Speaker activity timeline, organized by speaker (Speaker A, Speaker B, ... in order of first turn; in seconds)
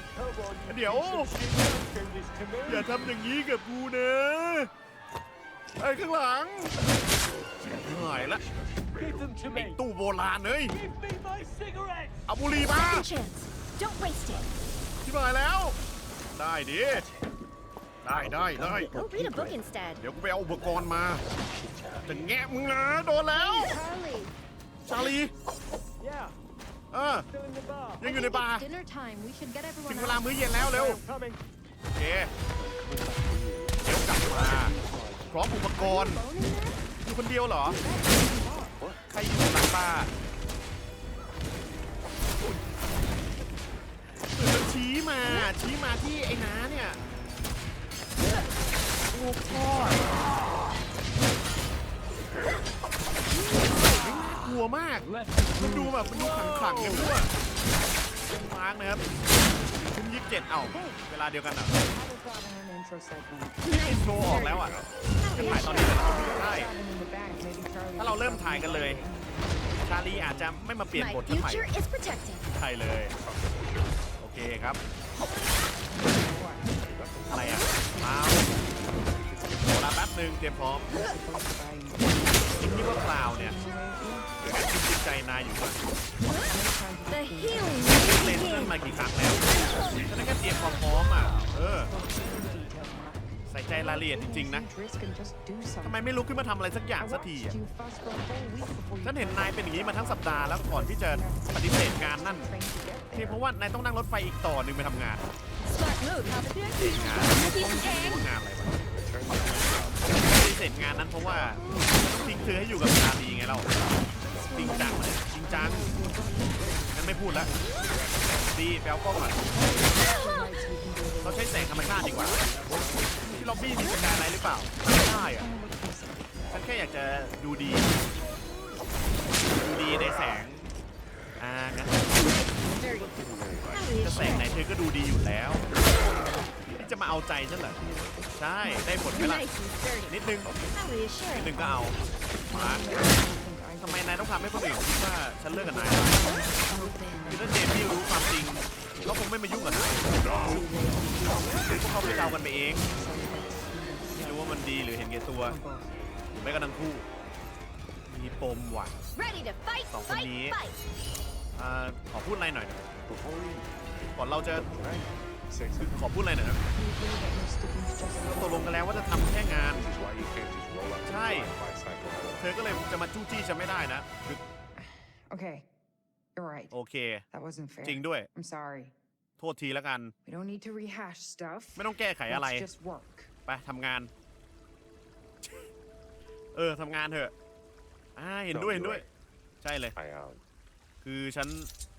Speaker A: 0.7-1.4, 2.6-4.7, 5.8-6.8, 7.7-8.4, 9.5-10.8, 12.3-13.1, 15.0-15.8, 16.4-17.1, 18.0-19.1, 20.0-21.2, 22.1-23.8, 24.9-25.3, 26.9-27.3, 28.0-28.6, 29.9-31.0, 31.9-32.3, 33.8-34.8, 35.3-36.2, 37.0-37.8, 39.1-40.1, 44.3-47.0, 49.1-50.1, 53.9-57.3, 58.3-59.0, 59.8-61.7, 63.6-64.8, 65.3-66.7, 68.0-69.0, 69.8-71.7, 72.5-73.1, 74.2-74.8, 77.3-78.5, 79.5-81.0, 82.6-83.6, 84.4-85.8, 88.0-91.9, 93.5-94.7, 95.8-97.6, 99.0-102.5, 103.1-105.2, 106.8-108.8, 110.1-113.7, 114.5-115.9, 116.9-117.5, 118.5-119.4, 121.2-122.4, 123.3-125.5, 126.5-128.0, 129.5-130.7, 131.4-132.4, 134.0-135.6, 136.8-137.8, 138.4-139.5, 140.1-140.5, 141.3-142.8, 143.8-146.3, 147.3-150.0, 151.7-152.9, 154.2-155.6, 156.3-157.1, 158.1-158.9, 159.9-160.6, 161.6-162.9, 164.2-164.7, 165.8-166.6, 168.2-169.9, 171.1-171.5, 172.4-174.4, 176.7-177.2, 177.8-178.3, 179.4-180.2, 181.8-182.7, 183.5-184.1, 185.4-185.7, 186.6-187.3, 188.2-189.1, 189.6-189.9, 191.0-191.7
Speaker B: 0.8-2.6, 9.2-9.6, 10.9-12.0, 27.4-28.0, 30.7-31.4
Speaker C: 8.8-9.3, 18.2-19.6, 21.4-22.2, 32.6-35.3, 64.3-64.9, 73.2-74.0, 76.8-79.6, 108.8-111.6, 114.3-114.5, 117.8-118.5, 122.7-123.2, 132.8-134.1, 140.4-140.7, 150.2-150.6, 163.1-163.8, 164.6-166.1, 169.7-172.6, 188.5-189.1, 190.0-190.4
Speaker D: 12.8-14.5, 18.9-20.0, 65.2-66.0, 70.9-72.5, 87.1-88.8, 105.6-108.2, 132.3-134.5, 138.6-141.6, 146.1-147.5, 159.2-160.8
Speaker E: 23.3-24.4, 28.0-30.3, 35.8-36.9, 37.6-38.8
Speaker F: 60.7-61.0, 61.8-63.6, 64.2-64.6, 65.3-69.3, 70.1-70.7, 76.0-76.8, 80.9-82.5, 83.1-84.3, 86.4-89.9, 91.5-96.0, 97.0-103.4, 114.2-116.7, 117.3-117.6, 119.5-122.2, 123.2-124.0, 125.0-126.3, 135.6-136.6, 137.7-139.3, 141.6-144.3, 145.5-148.1, 150.3-151.5, 152.9-154.5, 155.4-155.9, 166.8-168.8, 174.8-175.7, 176.4-176.7, 177.3-178.9, 180.2-183.3